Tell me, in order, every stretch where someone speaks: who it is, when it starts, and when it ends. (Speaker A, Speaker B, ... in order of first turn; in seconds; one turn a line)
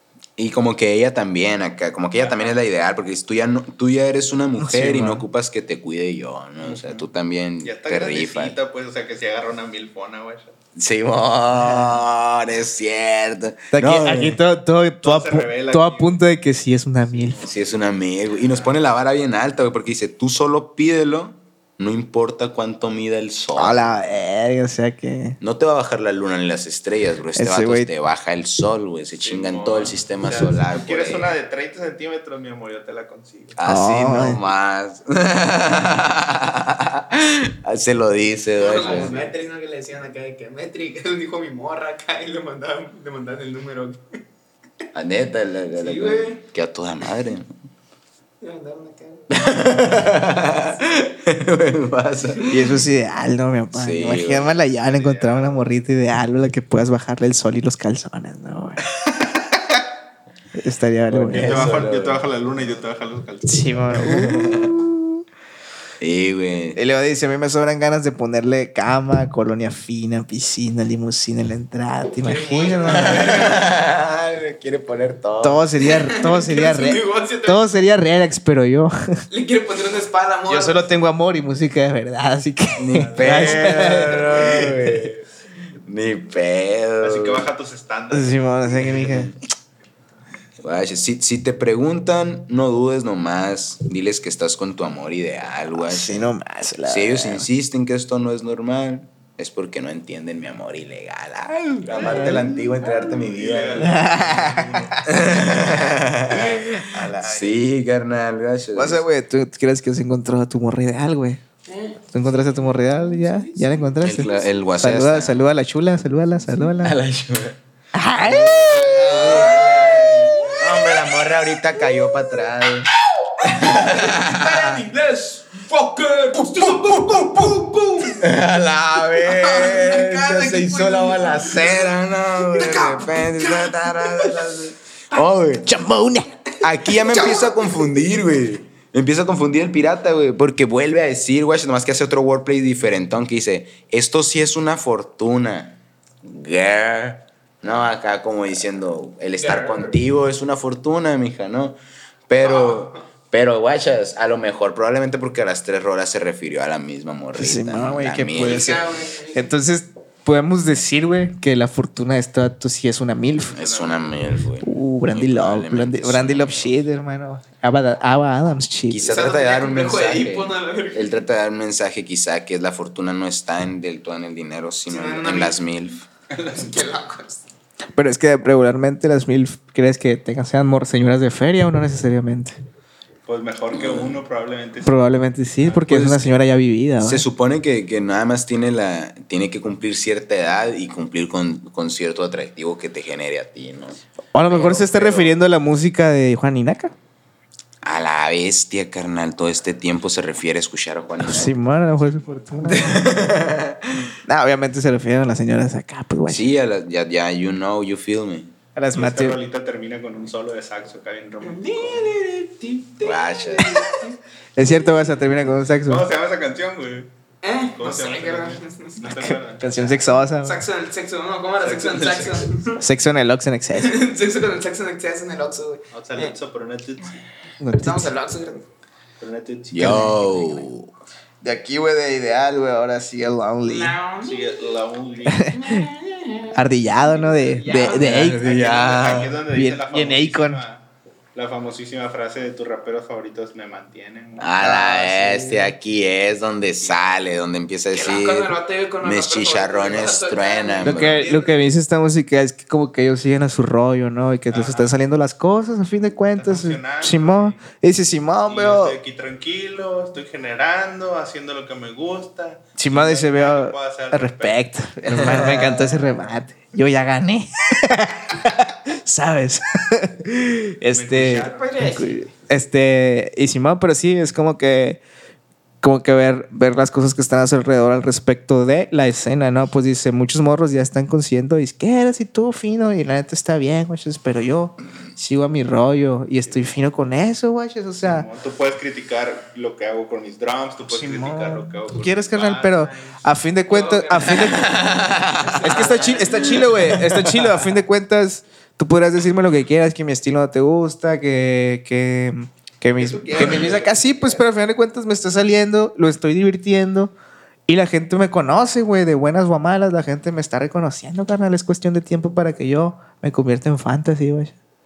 Speaker A: 0.4-8.6
Speaker B: 2.2-2.5
Speaker C: 4.6-5.2
Speaker B: 6.6-7.1
Speaker B: 7.6-10.5
Speaker A: 10.8-14.4
Speaker C: 13.7-17.4
Speaker B: 15.0-16.2
Speaker B: 17.0-17.6
Speaker A: 17.4-23.8
Speaker C: 23.6-25.4
Speaker A: 25.4-31.4
Speaker C: 27.4-27.9
Speaker B: 29.2-33.6
Speaker A: 33.6-39.2
Speaker C: 33.6-34.4
Speaker D: 38.6-44.2
Speaker B: 38.7-39.3
Speaker A: 44.9-47.6
Speaker D: 45.8-46.4
Speaker D: 48.4-50.8
Speaker A: 49.3-52.8
Speaker C: 52.5-58.8
Speaker A: 53.7-54.5
Speaker B: 54.7-55.6
Speaker C: 60.5-61.7
Speaker A: 61.1-62.2
Speaker B: 61.3-63.8
Speaker C: 63.4-65.2
Speaker A: 64.0-64.7
Speaker A: 66.0-66.8
Speaker C: 66.8-73.3
Speaker D: 72.2-73.6
Speaker A: 72.8-75.7
Speaker C: 75.4-78.9
Speaker D: 75.8-77.6
Speaker D: 79.3-81.0
Speaker C: 80.5-85.1
Speaker A: 82.8-85.2
Speaker B: 82.9-84.0
Speaker A: 85.8-87.5
Speaker B: 87.0-88.5
Speaker C: 88.1-89.3
Speaker A: 88.8-89.3
Speaker A: 90.6-96.3
Speaker C: 95.7-97.4
Speaker A: 96.8-104.0
Speaker D: 101.9-103.2
Speaker C: 102.1-102.3
Speaker B: 103.1-105.5
Speaker C: 103.8-105.2
Speaker A: 105.0-109.0
Speaker B: 106.3-107.7
Speaker C: 108.7-111.4
Speaker D: 111.7-114.5
Speaker C: 112.1-117.0
Speaker A: 114.0-115.4
Speaker A: 116.5-117.6
Speaker C: 117.9-119.2
Speaker A: 118.2-122.9
Speaker D: 118.8-122.2
Speaker B: 119.3-119.7
Speaker D: 123.3-128.4
Speaker A: 123.4-124.8
Speaker A: 126.5-127.5
Speaker A: 128.2-135.7
Speaker D: 129.1-134.5
Speaker C: 135.6-136.3
Speaker A: 136.6-151.8
Speaker D: 136.9-137.9
Speaker D: 149.4-149.9
Speaker A: 152.3-158.7
Speaker D: 152.4-153.0
Speaker C: 157.3-158.8
Speaker D: 158.3-159.5
Speaker C: 159.3-163.6
Speaker B: 163.4-164.2
Speaker A: 163.5-166.8
Speaker C: 164.6-169.1
Speaker A: 168.9-176.0
Speaker D: 169.0-171.2
Speaker D: 174.9-175.6
Speaker D: 176.3-177.4
Speaker C: 177.9-182.6
Speaker B: 183.2-185.0
Speaker A: 183.7-184.2
Speaker C: 184.8-187.2
Speaker B: 185.6-186.3
Speaker A: 187.0-195.3
Speaker C: 194.3-196.9
Speaker A: 197.8-201.5
Speaker C: 201.2-202.9
Speaker B: 201.9-202.9
Speaker A: 202.6-204.1
Speaker C: 204.2-206.5
Speaker A: 206.3-208.5
Speaker C: 208.7-209.4
Speaker B: 208.9-212.2
Speaker D: 211.4-215.3
Speaker A: 213.0-213.8
Speaker C: 214.6-216.1
Speaker B: 215.8-217.1
Speaker D: 217.4-222.8
Speaker B: 217.7-219.8
Speaker C: 219.6-220.6
Speaker B: 221.6-222.5
Speaker C: 222.8-224.0
Speaker D: 223.7-226.3
Speaker B: 225.9-227.2
Speaker C: 227.6-228.1
Speaker D: 227.7-228.7
Speaker B: 229.2-230.1
Speaker A: 229.7-230.9
Speaker C: 229.8-230.4
Speaker C: 231.4-233.9
Speaker D: 233.6-234.7
Speaker B: 234.2-235.5
Speaker C: 235.2-235.8
Speaker D: 235.5-238.3
Speaker C: 236.5-240.6
Speaker B: 237.9-244.5
Speaker A: 238.0-239.3
Speaker A: 244.4-251.3
Speaker C: 244.6-245.7
Speaker B: 246.8-247.1
Speaker D: 247.9-251.5
Speaker C: 250.8-258.9
Speaker B: 254.5-254.9
Speaker B: 256.3-257.6
Speaker B: 258.5-265.4
Speaker C: 262.8-275.0
Speaker D: 265.2-266.0
Speaker B: 270.9-271.7
Speaker D: 271.4-272.2
Speaker C: 275.8-288.3
Speaker B: 288.0-293.3
Speaker C: 290.9-294.8
Speaker D: 293.7-296.7
Speaker A: 294.4-295.8
Speaker C: 295.6-307.1
Speaker A: 296.4-297.6
Speaker D: 303.0-304.4
Speaker C: 307.7-314.5